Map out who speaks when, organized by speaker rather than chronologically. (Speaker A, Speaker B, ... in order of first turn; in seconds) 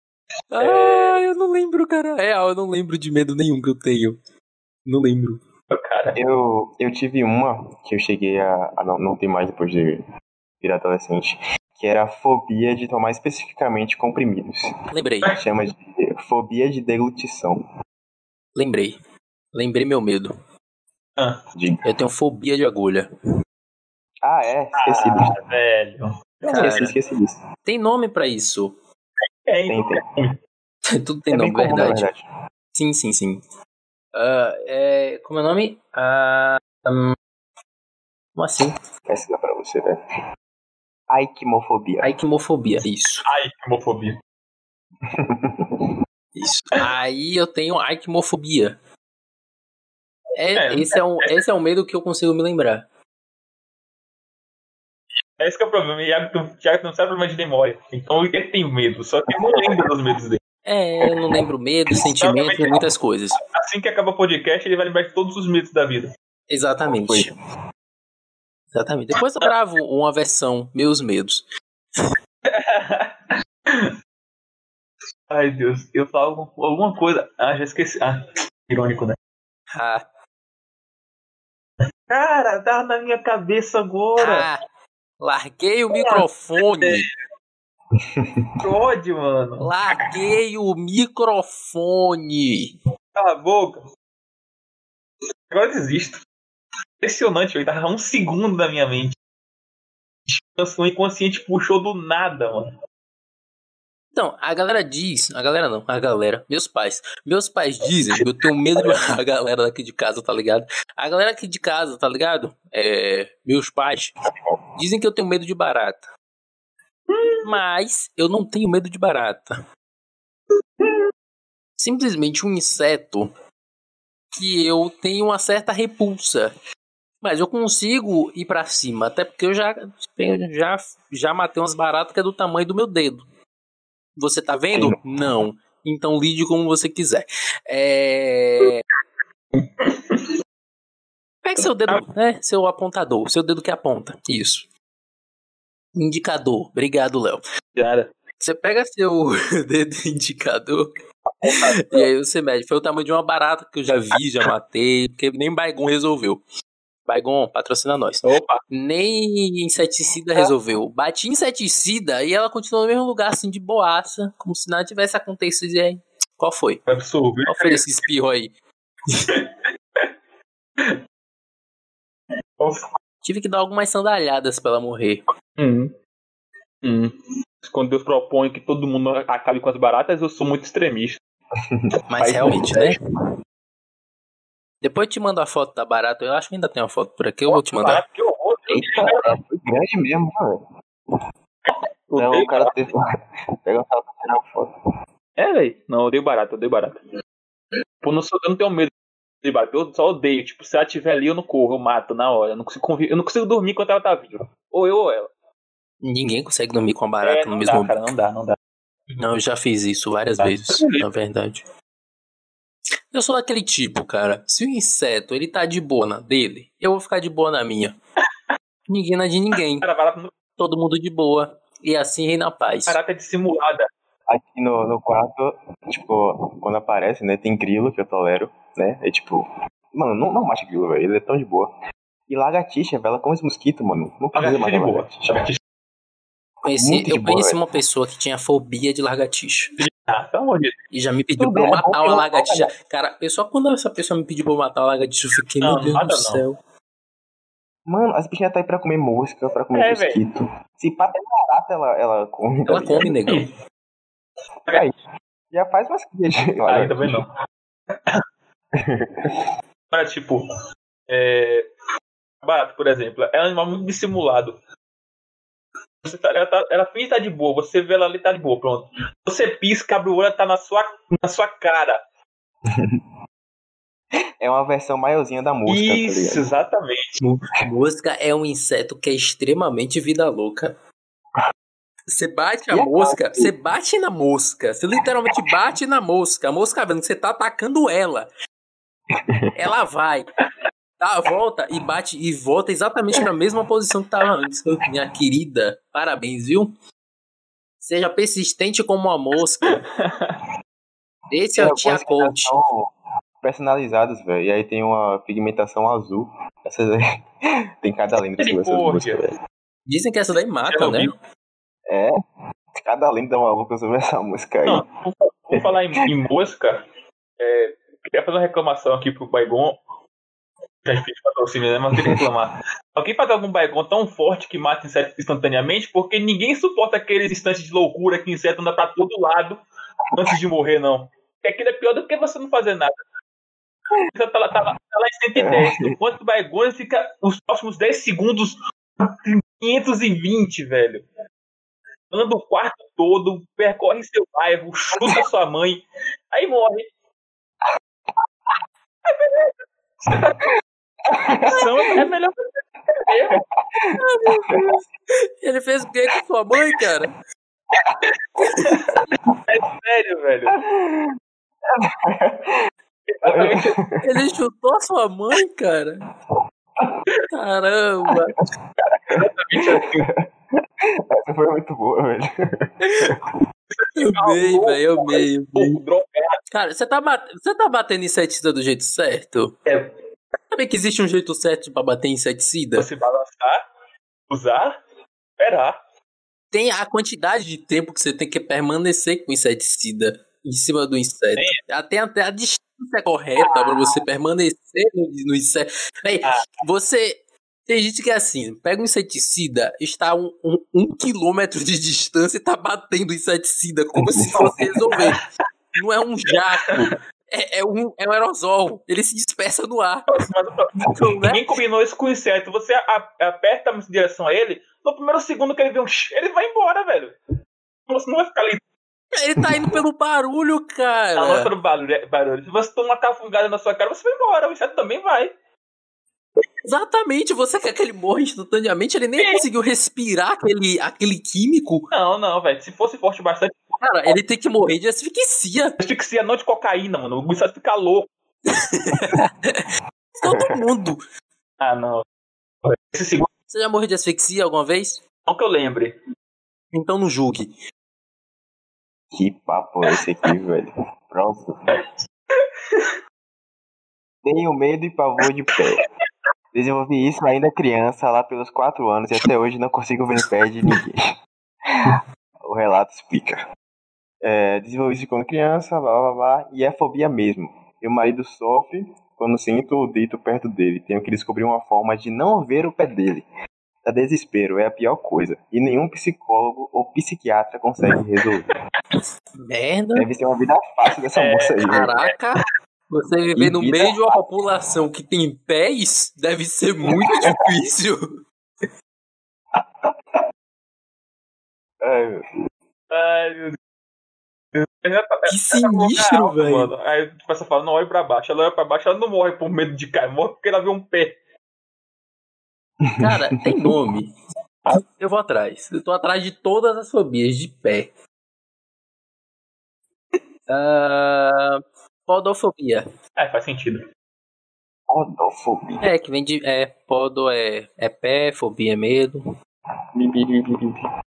Speaker A: 0.5-4.2, 4.9-5.4, 14.9-15.3, 18.5-19.0, 19.5-20.3, 21.9-23.1, 26.5-26.9, 27.6-28.8, 30.9-32.1, 32.7-33.4, 34.1-37.1, 38.4-38.7, 42.0-43.2, 46.4-48.8, 50.4-52.9, 60.6-63.4, 66.5-67.3, 68.7-71.5, 79.7-80.0, 84.2-84.6, 85.2-87.0, 89.6-92.8, 104.1-114.1, 114.8-116.1, 117.4-119.6, 121.8-123.3, 124.3-126.5, 127.2-133.2, 134.2-138.8, 141.4-144.7, 145.9-147.4, 148.4-150.9, 151.5-156.4, 157.1-166.8, 167.4-168.5, 173.2-175.2, 182.1-183.0, 184.8-188.0, 206.0-208.1, 209.2-211.6, 213.1-218.0, 218.9-219.9, 220.6-223.0, 236.6-239.7, 240.9-246.6, 252.7-253.4, 277.2-280.8, 282.1-288.3, 289.5-290.3, 291.0-296.7, 297.8-299.8, 301.3-302.5, 309.9-311.1, 354.0-357.1, 358.5-358.8, 364.0-366.0, 367.3-368.4, 372.8-373.1, 373.9-375.8, 376.5-379.6, 380.5-382.9, 386.5-405.2, 405.8-410.1, 410.9-411.4, 419.1-421.5, 426.6-431.9, 433.8-435.8, 438.5-441.0, 443.5-445.0, 446.7-447.5, 479.4-480.1, 481.7-488.0, 495.3-496.7, 503.0-504.1, 504.7-507.9, 510.5-512.9, 515.8-519.2
Speaker B: 0.6-1.2, 5.7-6.2, 24.8-26.8, 29.5-30.4, 43.2-44.2, 50.5-51.3, 55.4-60.4, 62.2-62.9, 63.4-66.1, 72.5-73.9, 75.3-79.2, 82.1-84.5, 85.9-86.2, 86.8-87.0, 88.6-89.7, 93.1-93.8, 95.5-96.2, 97.0-99.2, 100.3-102.7, 117.1-117.5, 139.6-140.3, 141.6-142.0, 147.8-148.1, 151.4-152.1, 158.2-158.6, 166.9-167.8, 169.3-170.1, 172.6-173.0, 175.6-175.9, 176.8-181.2, 182.2-182.9, 187.5-189.3, 191.7-192.7, 195.4-197.0, 198.0-198.9, 199.4-205.3, 207.2-208.6, 210.4-211.0, 219.8-220.3, 222.9-223.9, 234.4-235.6, 239.8-240.8, 245.6-246.4, 249.7-250.2, 256.7-257.3, 259.9-260.4, 261.1-261.6, 262.4-264.6, 266.0-272.0, 275.6-277.2, 299.6-300.4, 308.4-309.2, 310.7-311.1, 314.7-316.8, 317.4-319.8, 320.8-329.6, 330.1-333.0, 334.1-341.1, 342.1-346.9, 349.1-350.5, 351.4-352.4, 353.0-353.4, 358.1-360.6, 363.1-363.7, 369.1-370.1, 373.8-376.4, 379.6-379.9, 382.8-383.6, 384.3-384.8, 385.4-385.8, 393.4-394.0, 396.2-396.5, 404.4-405.1, 410.1-417.1, 417.9-418.6, 421.2-425.3, 431.9-434.1, 435.8-438.1, 441.6-442.0, 442.6-443.3, 445.2-446.0, 451.7-452.9, 481.1-482.1, 492.9-493.6, 494.5-501.2, 513.2-513.9, 520.0-520.8
Speaker C: 6.1-10.0, 10.6-14.7, 15.3-17.6, 21.5-21.9, 24.2-25.3, 26.5-27.4, 29.7-30.0, 31.3-32.2, 39.1-40.0, 41.1-42.1, 45.0-45.9, 59.3-59.8, 66.8-67.3, 87.9-88.6, 181.6-181.9, 188.7-190.6, 192.2-193.0, 193.6-194.7, 224.3-231.7, 232.3-235.4, 236.7-237.6, 241.4-242.7, 247.9-253.1, 254.7-255.0, 255.5-257.2, 258.7-259.4, 272.7-273.0, 274.4-276.4, 282.7-283.5, 289.1-289.5, 301.6-307.0, 307.8-309.3, 311.9-312.1, 312.7-314.8, 315.5-316.0, 321.9-322.2, 335.4-335.9, 345.0-345.2, 351.1-352.1, 353.3-354.8, 357.7-358.0, 358.7-359.3, 360.6-361.1, 361.7-362.7, 363.2-364.1, 369.1-370.2, 370.8-373.2, 404.0-405.0, 410.8-411.1, 419.4-419.8, 440.3-440.6, 449.1-451.6, 454.2-455.8, 456.5-461.1, 461.8-463.4, 464.2-473.2, 473.9-478.5, 479.9-481.9, 483.4-484.1, 486.9-487.7, 489.5-490.2, 491.8-492.2, 502.8-503.7, 514.9-515.9